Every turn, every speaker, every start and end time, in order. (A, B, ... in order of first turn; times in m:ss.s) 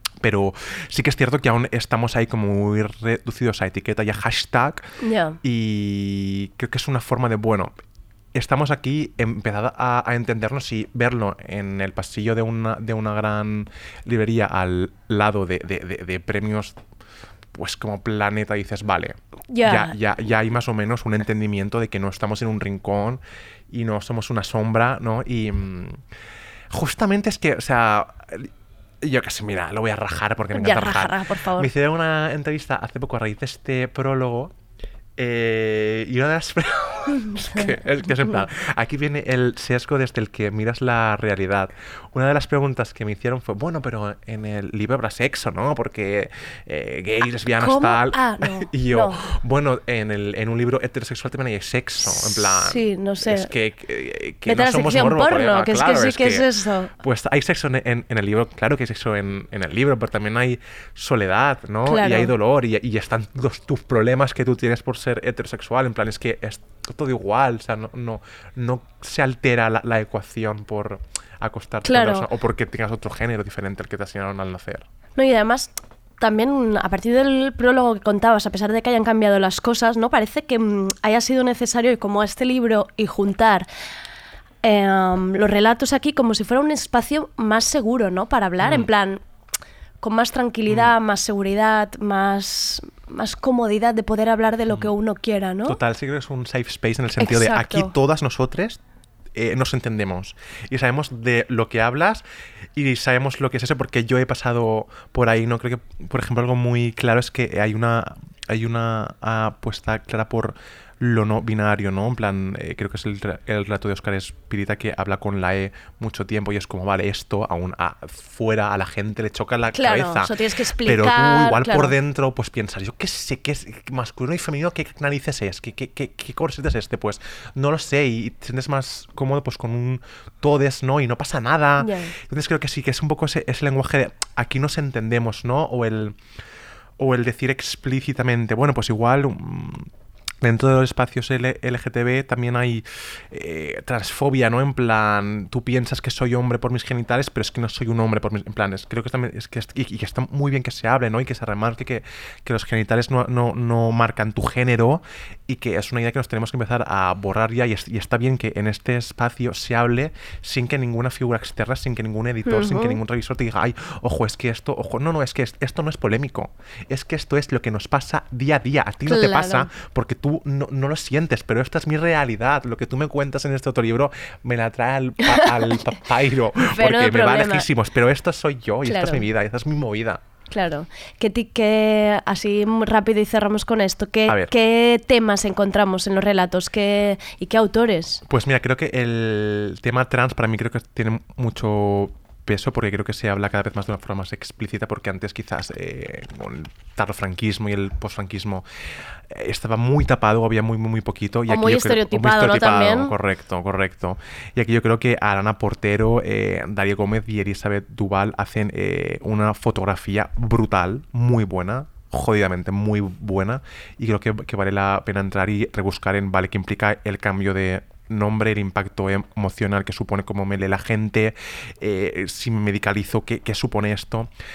0:00.2-0:04.8 A
0:05.0-0:05.4 B
0:05.4-0:07.7 A
0:08.3-0:16.8 A
0:17.5-0:26.0 A
0:19.5-0:20.0 B
0:26.7-0:28.5 A
0:29.0-0:34.5 A
0:30.5-0:31.7 B
0:35.2-0:56.5 A
0:38.1-0:38.4 B
0:47.6-0:49.2 B
0:52.0-0:53.5 B
0:54.5-0:56.9 B
0:57.0-1:14.9 A
1:01.9-1:02.3 B
1:11.8-1:12.3 B
1:15.2-1:23.7 B
1:24.6-1:29.2 B
1:28.6-1:28.9 A
1:30.0-1:35.8 B
1:30.7-1:30.9 A
1:35.6-1:38.8 A
1:37.2-1:38.0 B
1:39.4-1:42.2 A
1:42.8-2:16.2 A
1:59.7-2:01.9 B
2:11.8-2:12.1 B
2:17.0-2:19.9 A
2:20.4-3:00.2 A
2:42.4-2:43.0 B
2:49.1-2:49.7 B
2:56.6-2:57.7 B
2:58.8-2:59.2 B
3:00.5-3:08.2 B
3:08.3-3:18.6 A
3:19.3-3:44.3 A
3:21.5-3:23.1 B